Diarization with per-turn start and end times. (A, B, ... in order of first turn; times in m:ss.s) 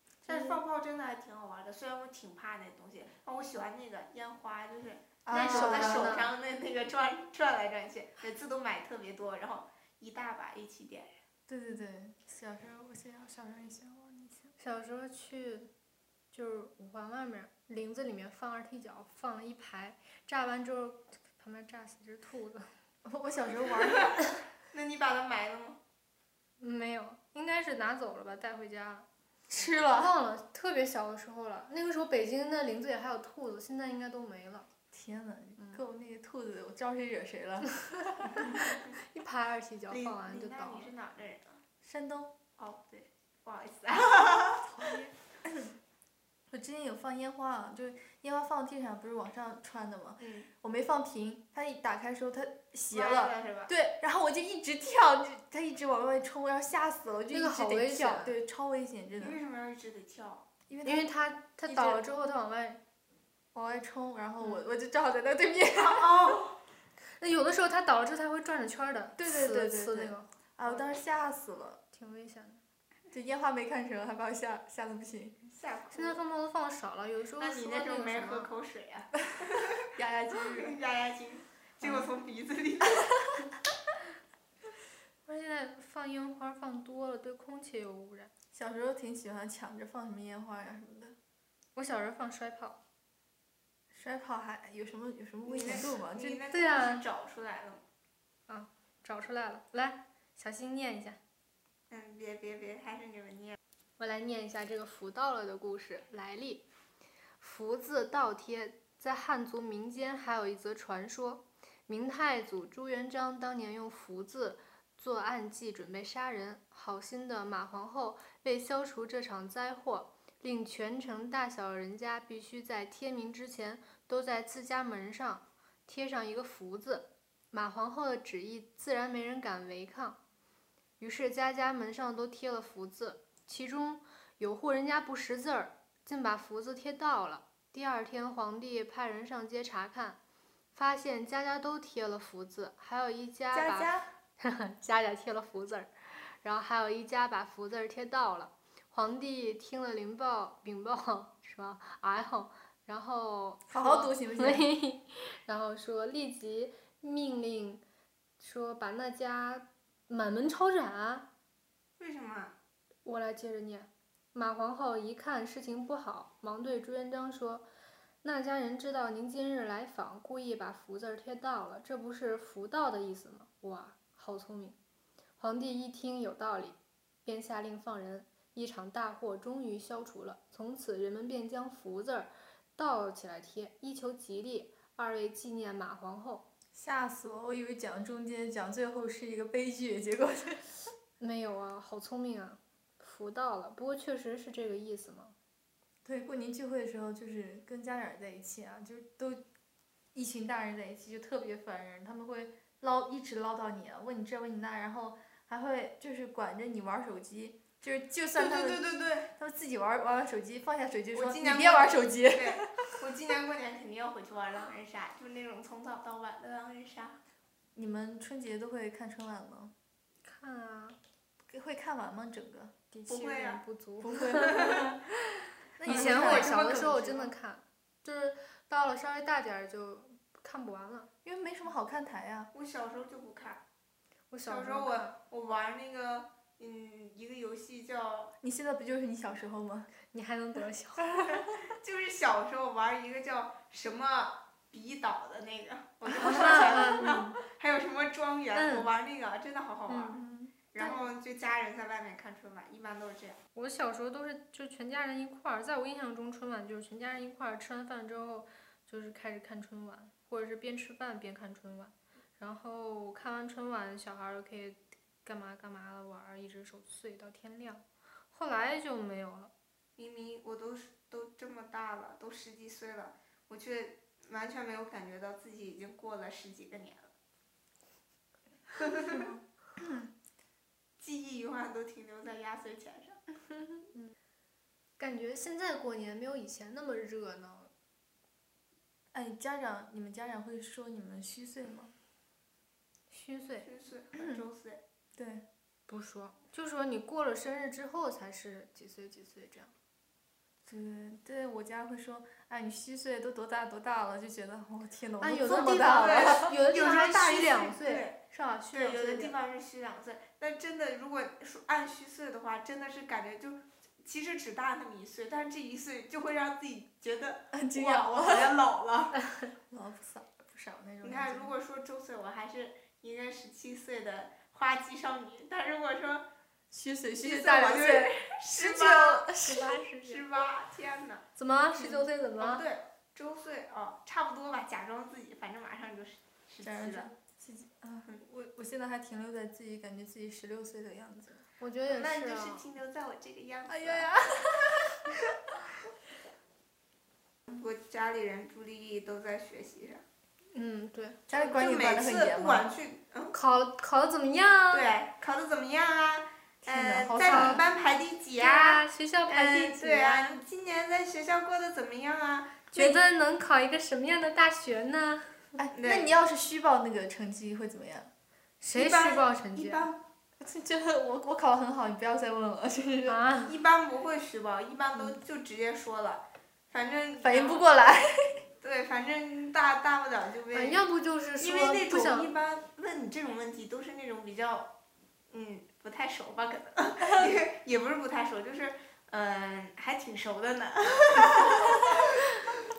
0:00.2-0:11.2 A
0:00.3-0:00.6 B
0:05.2-0:06.2 B
0:05.3-0:06.3 C
0:11.5-0:14.5 B
0:14.6-0:15.7 C
0:16.3-0:22.7 C
0:23.0-0:24.3 B
0:23.8-0:25.8 A
0:26.6-0:29.1 C
0:29.5-0:30.2 B
0:29.9-0:34.7 C
0:34.9-0:38.7 B
0:37.8-0:40.9 C
0:39.9-0:41.6 A
0:41.8-0:42.4 B
0:42.6-0:44.8 A
0:44.7-0:45.7 B
0:46.5-0:59.4 B
0:50.2-0:50.5 A
0:52.9-0:53.7 A
0:57.3-0:58.4 C
0:59.2-1:00.5 A
1:00.7-1:01.0 B
1:00.8-1:02.8 C
1:01.7-1:02.0 B
1:03.5-1:06.4 B
1:05.7-1:06.6 A
1:07.2-1:10.8 C
1:09.2-1:11.8 B
1:11.9-1:12.6 C
1:13.1-1:15.4 B
1:15.5-1:16.2 A
1:15.9-1:18.5 C
1:17.4-1:19.9 A
1:19.8-1:20.8 B
1:20.4-1:23.2 A
1:25.3-1:28.3 C
1:28.5-1:31.2 B
1:31.8-1:32.8 C
1:33.9-1:36.4 B
1:35.4-1:37.8 A
1:36.5-1:37.0 C
1:38.5-1:41.2 C
1:41.9-1:43.6 A
1:44.0-1:46.6 C
1:47.4-2:10.2 C
2:11.0-2:20.2 C
2:20.7-2:37.8 C
2:23.5-2:24.1 A
2:33.7-2:34.7 B
2:38.4-2:41.3 C
2:42.0-2:42.6 A
2:43.0-2:47.7 C
2:48.2-2:54.8 C
2:55.4-3:06.5 C
3:06.7-3:10.7 B
3:11.2-3:15.4 C
3:16.0-3:19.4 B
3:20.1-3:33.0 B
3:28.4-3:29.3 A
3:31.1-3:37.2 A
3:37.8-3:39.7 B
3:40.2-3:41.0 C
3:41.5-3:42.7 B
3:42.9-3:44.9 C
3:43.1-3:43.6 A
3:44.0-3:45.0 B
3:44.4-3:45.0 A
3:45.8-3:47.0 B
3:45.9-3:47.2 A
3:45.9-3:51.1 C
3:51.2-3:52.5 B
3:52.5-3:53.6 A
3:54.3-3:55.2 C
3:54.5-3:58.3 A
3:58.4-3:59.9 B
4:00.1-4:01.3 C
4:01.3-4:13.4 A
4:06.1-4:07.4 C
4:06.2-4:07.1 B
4:08.6-4:08.9 C
4:09.9-4:10.2 C
4:10.1-4:11.0 B
4:13.6-4:29.5 C
4:30.0-4:37.1 A
4:38.8-4:39.3 A
4:39.1-4:40.1 B
4:41.0-4:43.2 A
4:45.0-4:47.7 C
4:49.1-4:51.9 B
4:53.1-4:53.7 C
4:53.6-4:54.8 A
4:55.2-4:55.4 B
4:55.9-4:59.7 C
5:00.6-5:06.6 B
5:05.2-5:09.3 C
5:05.8-5:08.2 A
5:08.7-5:19.2 A
5:17.5-5:18.6 B
5:19.7-5:21.5 B
5:21.0-5:26.3 A
5:26.7-5:29.8 B
5:27.2-5:29.3 A
5:29.4-5:30.2 C
5:30.0-5:31.2 A
5:31.4-5:32.6 C
5:31.8-5:37.1 A
5:36.6-5:41.4 B
5:41.6-5:42.6 C
5:41.9-5:44.1 A
5:43.7-5:45.7 B
5:47.5-5:50.0 A
5:50.5-5:51.2 C
5:51.3-5:52.7 B
5:51.3-5:53.4 A
5:53.3-5:54.9 C
5:54.7-6:02.8 A
5:56.6-5:57.6 B
5:57.2-5:57.6 C
5:58.4-6:00.4 C
6:02.7-6:05.4 C
6:05.6-6:08.1 B
6:05.8-6:06.1 A
6:08.6-6:09.9 C
6:08.7-6:10.0 A
6:10.4-6:13.2 B
6:13.1-6:13.5 C
6:13.5-6:17.6 A
6:17.2-6:18.4 B
6:18.6-6:20.8 A
6:20.5-6:22.3 C
6:21.4-6:24.7 A
6:25.3-6:32.2 A